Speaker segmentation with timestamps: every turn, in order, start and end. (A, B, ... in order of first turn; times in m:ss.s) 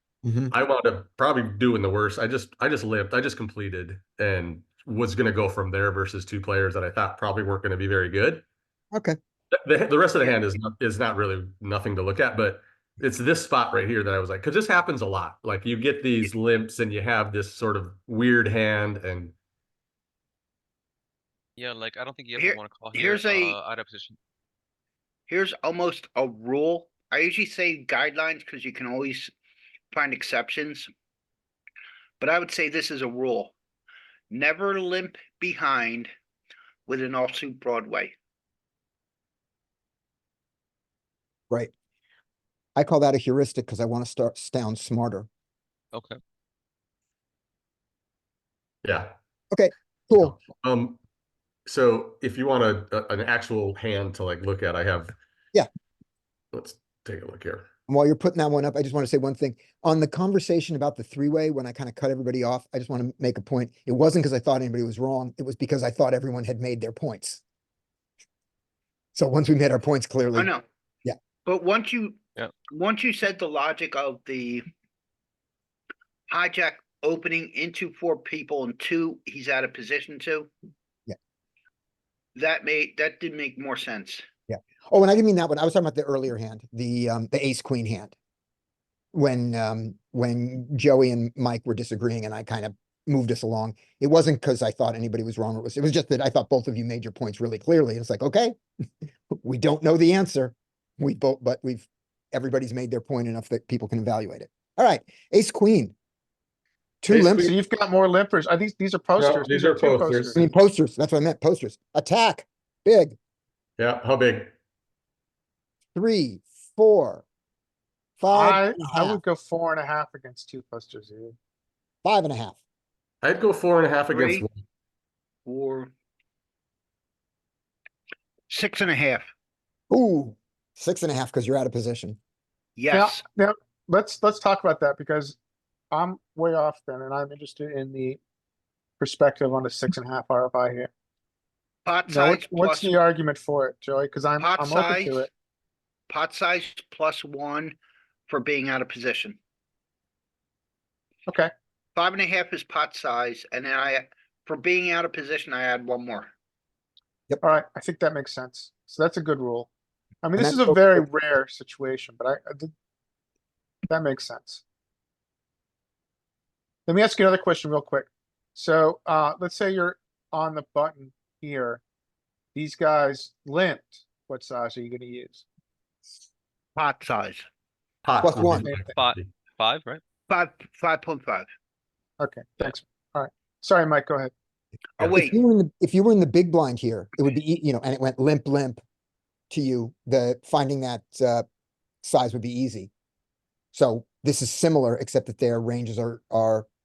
0:00.2-0:00.5 A
0:00.5-0:08.4 B
0:09.6-0:19.3 B
0:21.6-0:24.2 C
0:22.4-0:23.6 D
0:25.3-0:29.3 D
0:29.9-0:30.9 D
0:32.2-0:33.5 D
0:34.3-0:36.1 D
0:36.9-0:38.1 D
0:42.8-0:45.3 A
0:45.9-0:46.2 C
0:48.8-0:49.1 B
0:49.5-0:50.4 A
0:50.1-0:51.0 B
0:51.6-0:55.1 B
0:56.5-0:57.6 B
0:57.9-1:07.4 A
1:09.1-1:10.5 A
1:10.3-1:10.6 D
1:11.4-1:12.2 D
1:12.7-1:14.6 D
1:16.3-1:20.5 D
1:22.4-1:24.2 D
1:24.5-1:28.1 A
1:29.1-1:38.6 A
1:39.3-1:45.9 A
1:47.0-1:47.5 A
1:47.1-1:50.4 E
1:49.2-1:50.4 B
1:50.4-1:53.2 A
1:53.8-1:54.5 B
1:55.9-1:57.2 A
1:58.2-1:59.2 A
1:58.3-2:01.4 E
2:02.0-2:02.6 A
2:03.2-2:04.6 B
2:04.1-2:04.4 D
2:05.4-2:05.9 D
2:08.5-2:09.3 D
2:09.9-2:12.2 A
2:12.8-2:13.2 D
2:12.9-2:15.4 E
2:15.9-2:18.2 E
2:19.0-2:20.9 E
2:21.8-2:22.9 D
2:22.1-2:25.3 E
2:24.4-2:25.3 D
2:26.1-2:27.8 D
2:28.3-2:29.4 D
2:31.2-2:31.5 E
2:32.0-2:36.3 D
2:37.4-2:39.7 E
2:40.2-2:42.7 E
2:40.4-2:41.0 A
2:43.9-2:44.6 E
2:46.8-2:51.8 E
2:52.5-2:55.4 E
2:56.8-2:57.4 D
2:58.0-2:59.3 B
2:58.2-2:58.7 A
2:58.7-3:00.0 C
3:00.3-3:01.4 D
3:02.2-3:04.3 E
3:05.0-3:05.4 D
3:05.0-3:08.8 A
3:09.5-3:11.4 A
3:12.0-3:12.9 A
3:13.7-3:16.7 A